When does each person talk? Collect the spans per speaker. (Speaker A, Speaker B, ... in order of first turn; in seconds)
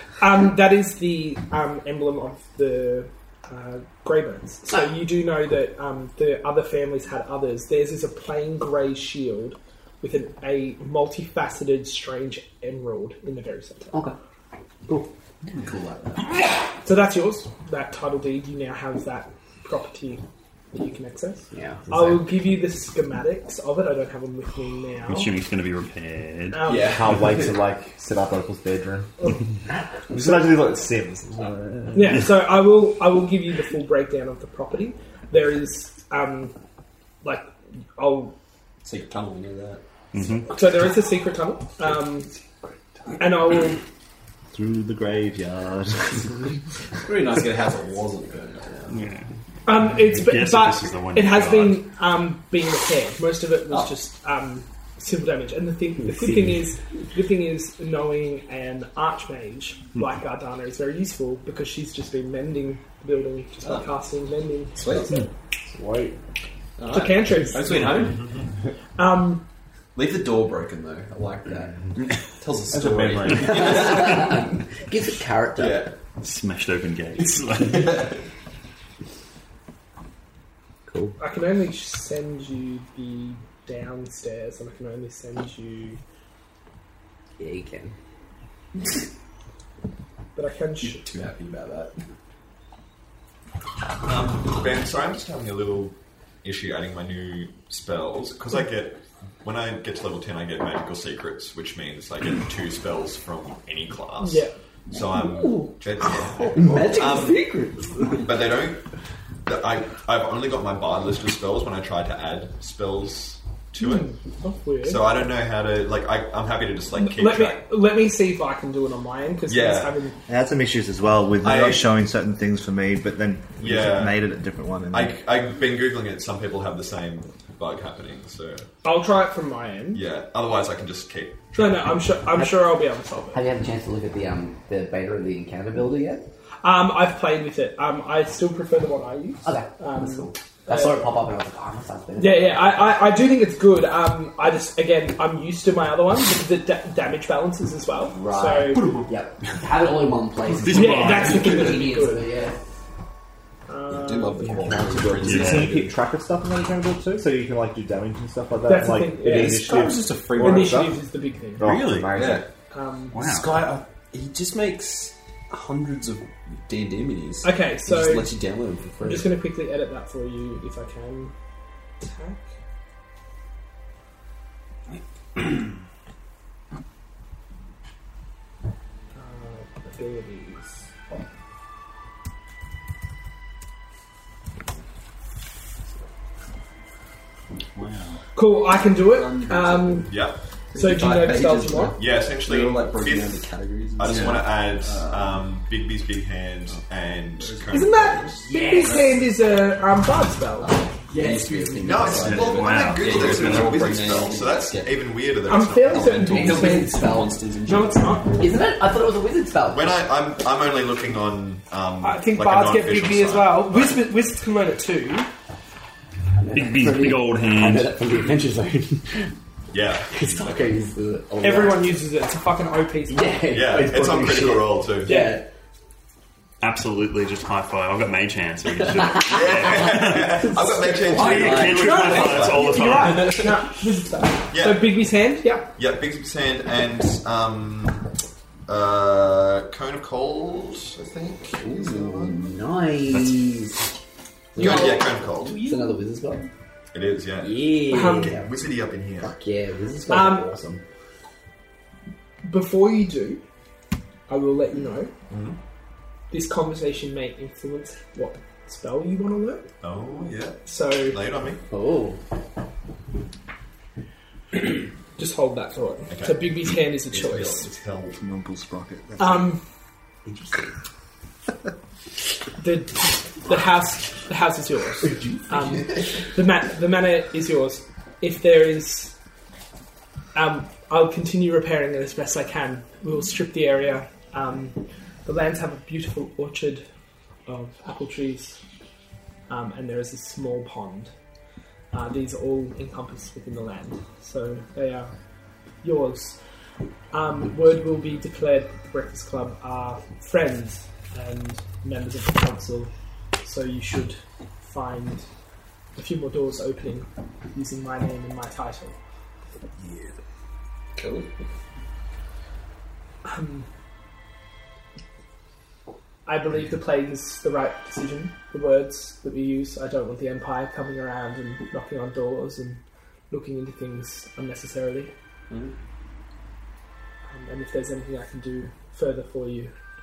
Speaker A: 0.2-14.0, 16.8-25.3, 26.5-26.9, 31.9-36.6, 37.2-38.4, 40.5-42.3, 43.2-43.8, 49.7-65.2, 66.9-68.0, 69.0-69.5, 81.2-86.0, 90.4-91.1, 104.2-104.5, 113.8-115.0, 117.0-120.2, 128.8-130.0, 131.5-133.4, 136.6-141.1, 142.2-148.9, 150.7-152.3, 153.7-154.8, 158.7-159.7, 160.4-161.7, 162.7-163.2, 167.4-168.3, 169.0-171.3, 172.0-172.5, 179.1-180.9, 188.3-190.1, 190.8-192.0, 197.7-200.8, 205.5-207.1, 207.7-208.5, 212.0-215.3, 221.4-223.4, 225.0-225.4, 231.7-235.7, 244.6-245.8, 247.9-248.4, 250.1-250.5, 252.4-253.4, 254.3-255.1, 256.3-259.7, 260.6-261.2, 265.2-267.7, 269.2-269.6, 272.6-279.1, 280.4-286.9, 287.5-288.6, 289.5-291.1, 291.9-295.1, 295.8-296.4, 297.1-305.3, 306.0-309.0, 313.2-313.7, 316.3-325.1, 327.3-329.7
Speaker B: 15.5-16.3, 26.6-27.6, 38.8-39.8, 47.0-49.0, 64.8-65.2, 66.8-68.3, 70.0-74.5, 75.6-75.9, 77.2-78.2, 90.8-92.0, 153.9-156.0, 159.2-160.8, 162.1-162.4, 163.2-169.3, 189.1-190.2, 190.7-195.5, 197.4-199.2, 201.1-205.0, 205.8-208.4, 310.9-311.3, 325.5-325.8
Speaker C: 21.5-21.9, 56.0-56.4, 73.5-75.9, 80.9-81.2, 87.4-88.0, 105.1-105.7, 106.4-108.2, 133.3-136.3, 139.4-143.0, 148.1-152.6, 198.5-199.0, 200.6-202.3, 206.2-207.4, 208.4-209.9, 216.4-219.3, 220.1-222.0, 223.1-225.4, 229.1-229.5, 230.2-232.0, 241.6-243.9, 244.6-244.9, 245.6-246.5, 247.4-248.5, 249.2-250.8, 261.7-262.2
Speaker D: 25.1-26.7, 40.1-40.5, 48.9-49.3, 49.8-51.9, 76.2-77.9, 150.6-151.7, 155.3-155.7, 161.6-162.1, 163.1-163.7, 187.8-188.2, 202.2-203.9, 216.5-218.0, 226.6-230.5, 231.1-233.5
Speaker E: 26.8-29.4, 30.1-32.3, 65.7-66.2, 72.7-73.9, 154.5-161.0, 161.6-162.4
Speaker F: 44.5-46.5, 120.3-125.2, 268.2-269.6
Speaker G: 68.2-68.4, 94.0-107.5, 108.1-108.8, 109.5-114.1, 114.8-117.7, 119.5-120.0, 121.4-121.9, 123.6-124.2, 124.9-128.7, 129.9-132.0, 190.1-190.4, 192.0-198.5, 201.8-206.2, 209.7-214.0, 219.7-220.6, 223.5-225.2, 229.2-232.8, 234.5-235.0, 235.8-238.0, 238.7-242.4, 244.6-245.6, 246.9-249.3, 255.3-255.6, 259.8-261.6, 266.1-268.2